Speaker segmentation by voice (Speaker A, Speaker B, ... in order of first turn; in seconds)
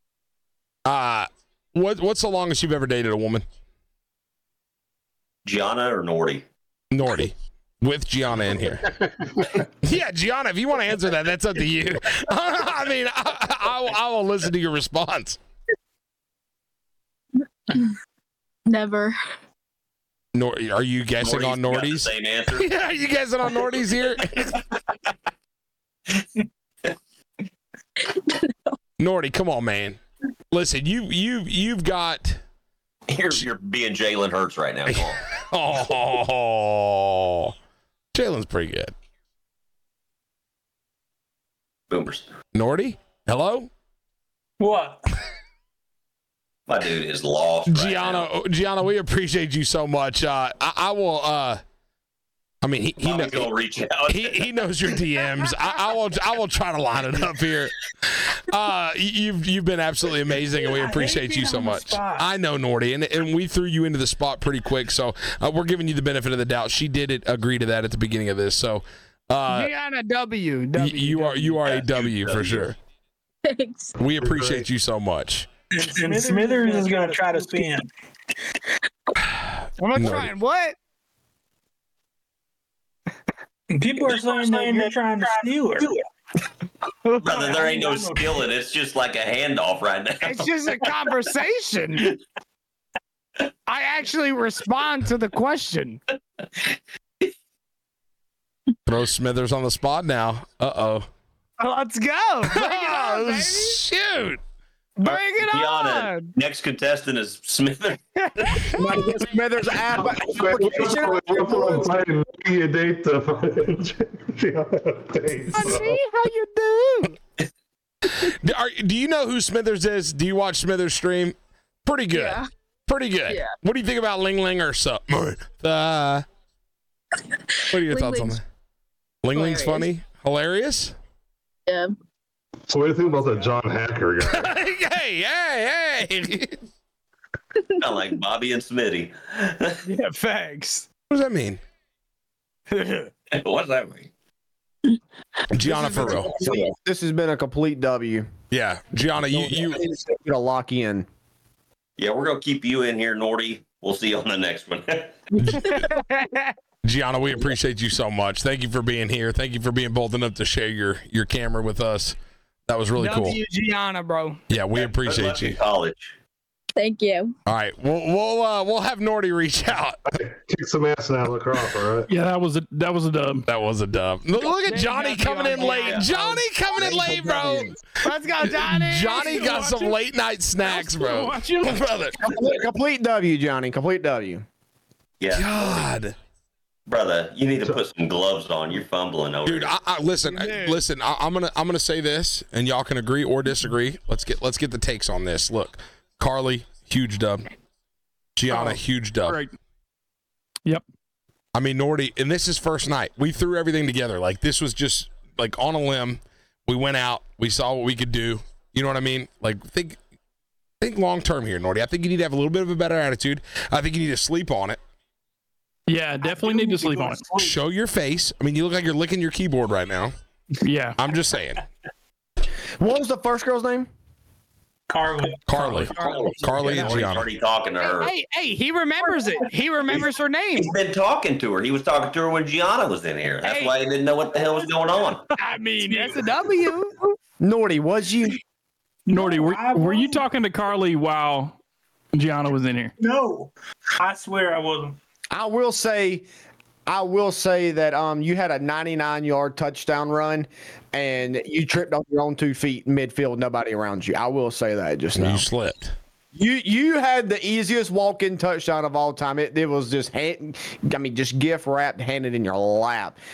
Speaker A: 0.9-3.5, 6.9-9.0, 9.6-15.4, 20.3-24.5, 29.0-30.0, 30.5-32.4, 34.9-37.5, 38.1-38.9, 42.5-43.7, 47.7-51.6, 52.6-53.5, 54.1-69.7, 70.8-72.8, 74.0-75.5, 79.4-80.3, 98.9-101.1, 102.5-104.4, 118.1-126.2, 127.7-128.4, 129.2-130.9, 134.2-136.6, 141.1-141.6, 145.5-146.4, 148.5-149.8, 155.4-156.0, 156.8-162.2, 162.7-163.4, 164.5-165.6, 167.5-170.0, 173.5-177.8, 178.4-182.2, 185.3-186.2, 189.4-197.5, 198.4-199.4, 201.6-210.0, 210.8-214.8, 217.3-220.1, 221.0-221.6, 225.5-227.3, 255.1-255.9
Speaker B: 5.5-6.5, 21.2-22.7, 33.1-35.2, 41.9-42.3, 46.7-48.3, 53.0-55.0, 71.6-72.7, 87.2-90.5, 105.3-108.7, 137.8-139.8, 143.3-144.1, 152.0-155.2, 164.7-166.1, 175.6-176.2, 185.2-185.9, 186.9-189.8, 225.8-228.1, 230.6-235.3
Speaker C: 17.7-17.9, 18.7-19.2, 28.1-28.5, 73.5-74.0, 122.1-122.5, 123.3-123.6, 127.7-128.4, 129.3-129.9, 131.7-131.9, 166.8-167.3
Speaker D: 44.6-45.0, 60.6-62.3, 75.7-77.9, 83.7-86.0, 87.3-88.5, 216.2-217.6, 224.9-225.4, 239.1-240.2, 243.0-245.0
Speaker E: 69.5-71.6, 76.0-77.6, 79.8-80.8, 84.1-85.8, 90.2-92.2, 93.7-96.0, 101.6-103.8, 105.0-106.3, 108.4-109.1, 115.5-117.2, 139.8-140.9, 142.7-143.1, 145.7-146.0, 155.4-156.5, 163.0-164.4, 174.4-179.9, 180.6-181.8, 190.3-190.8, 225.6-227.0, 227.8-230.8, 233.4-233.8, 235.4-237.2
Speaker F: 74.2-74.7, 109.9-116.0, 132.7-134.5, 170.1-172.1
Speaker G: 108.7-111.9, 145.7-148.3, 149.2-151.1, 176.8-177.7, 182.2-184.5, 222.8-223.9, 237.4-238.4, 245.3-246.3, 246.9-255.5, 256.3-263.2
Speaker H: 172.1-173.5, 198.5-199.5, 215.9-217.2, 220.6-221.0, 239.1-241.6, 242.1-242.9